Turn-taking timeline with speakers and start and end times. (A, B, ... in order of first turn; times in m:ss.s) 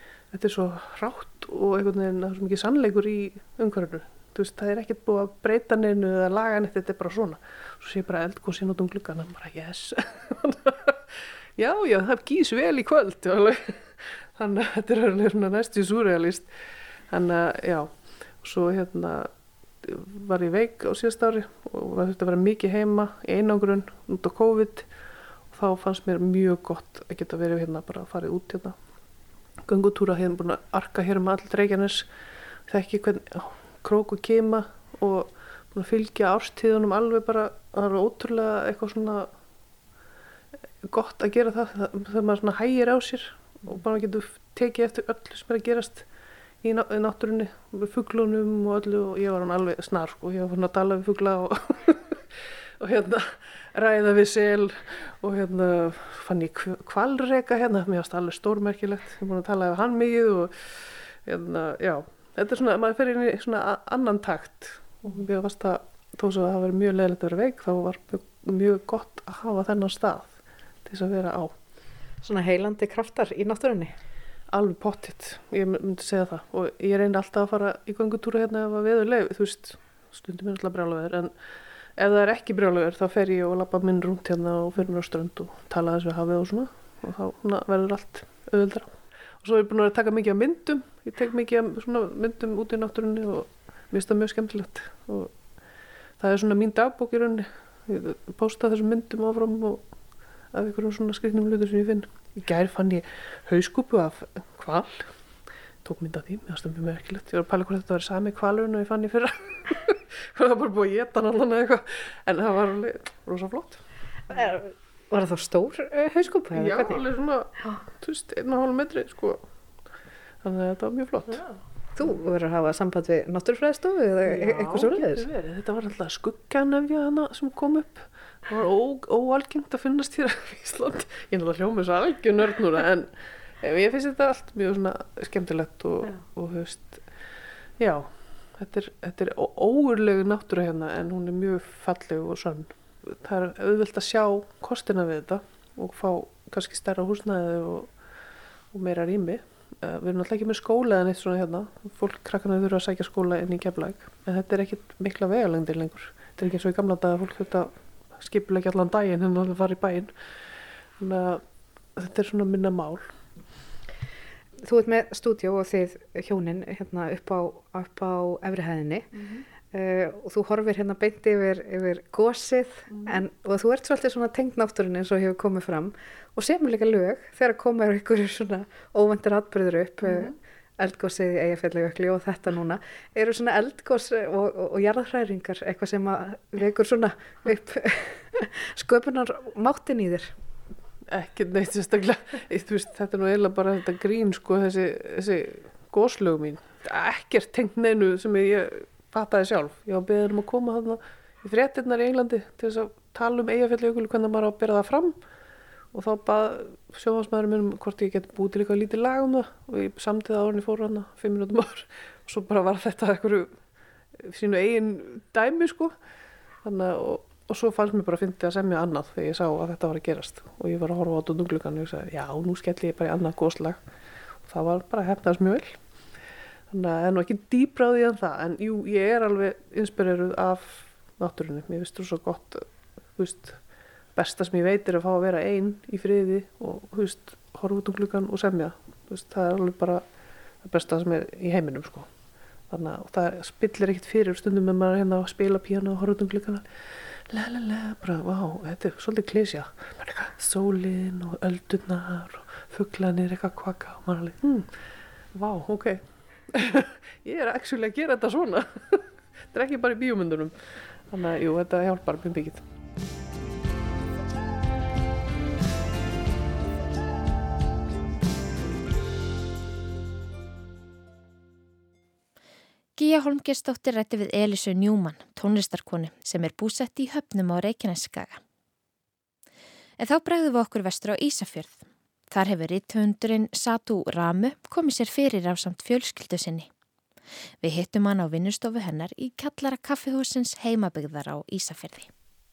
0:00.3-0:16.5 A
0:17.1-0:19.3 A
0:19.8-0:24.9 A
0:25.5-0:28.8 A
0:29.6-0:32.1 A
0:32.7-0:39.3 A
0:40.8-0:46.0 A
0:46.6-0:52.2 A
0:52.8-1:11.5 A
1:12.2-1:13.9 B
1:14.5-1:21.3 A
1:22.0-1:35.3 A
1:36.2-1:39.8 A
1:40.5-1:45.1 A
1:45.8-1:53.8 A
1:54.3-1:57.0 B
1:56.5-1:59.4 A
2:00.4-2:01.4 A
2:02.0-2:05.3 B
2:04.2-2:17.0 A
2:17.8-2:27.9 A
2:28.7-2:40.1 A
2:41.0-2:41.4 A
2:41.9-2:43.1 A
2:44.6-2:49.1 B
2:49.2-2:49.4 A
2:49.7-3:10.3 B
2:52.9-2:53.2 A
3:00.0-3:00.3 A
3:11.1-3:25.2 A
3:25.9-3:33.5 A
3:34.2-3:35.9 A
3:36.6-3:43.8 A
3:44.4-3:45.8 A
3:46.7-3:53.6 A
3:54.1-4:00.0 A
4:00.6-4:02.1 A
4:02.7-4:06.6 A
4:07.3-4:14.7 A
4:15.3-4:22.6 A
4:33.0-4:38.4 C
4:40.0-4:41.8 C
4:42.3-4:46.7 C
4:47.6-4:52.1 C